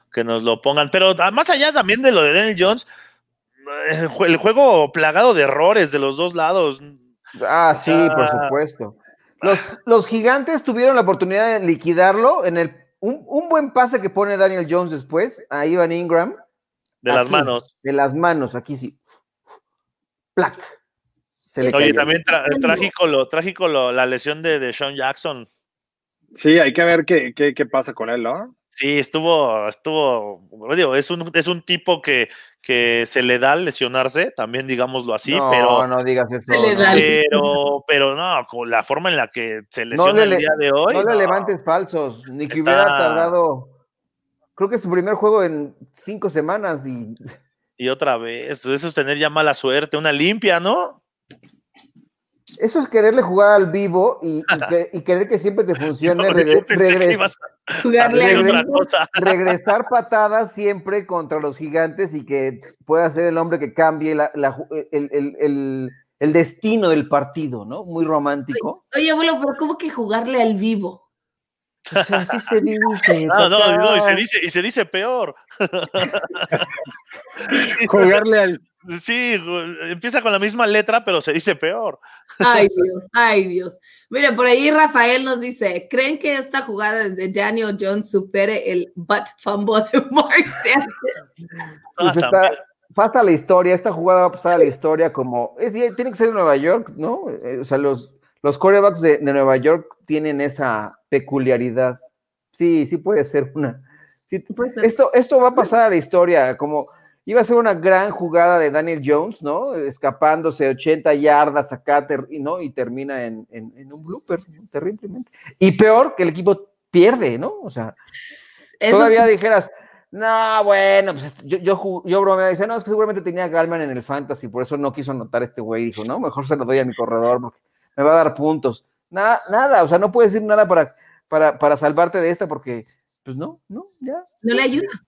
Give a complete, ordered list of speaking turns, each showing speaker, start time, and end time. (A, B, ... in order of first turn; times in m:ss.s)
0:00.1-0:02.9 A
0:03.6-0:07.0 A
0:07.4-0:16.4 B
0:07.8-0:08.6 A
0:17.0-0:17.6 A
0:17.1-0:19.0 B
0:20.4-0:20.8 B
0:21.5-0:22.1 B
0:21.6-0:22.9 C
0:21.7-0:25.5 A
0:26.4-0:28.5 D
0:28.7-0:35.9 A
0:35.2-0:37.2 B
0:36.5-0:37.5 C
0:36.9-0:41.5 A
0:39.9-0:43.7 B
0:42.5-0:43.3 A
0:44.6-0:47.4 B
0:47.8-0:51.0 A
0:52.6-0:57.2 B
0:56.0-0:59.5 A
0:57.8-0:58.9 C
0:58.1-1:08.8 B
1:08.5-1:11.0 C
1:11.9-1:12.4 A
1:11.9-1:14.2 B
1:13.3-1:16.5 A
1:17.5-1:18.6 D
1:17.5-1:18.2 A
1:18.9-1:22.6 A
1:22.4-1:31.2 C
1:32.0-1:32.6 A
1:32.0-1:42.0 B
1:42.5-1:58.0 B
1:44.5-1:44.9 C
1:58.8-1:59.3 C
1:58.9-2:14.8 B
2:14.4-2:15.0 C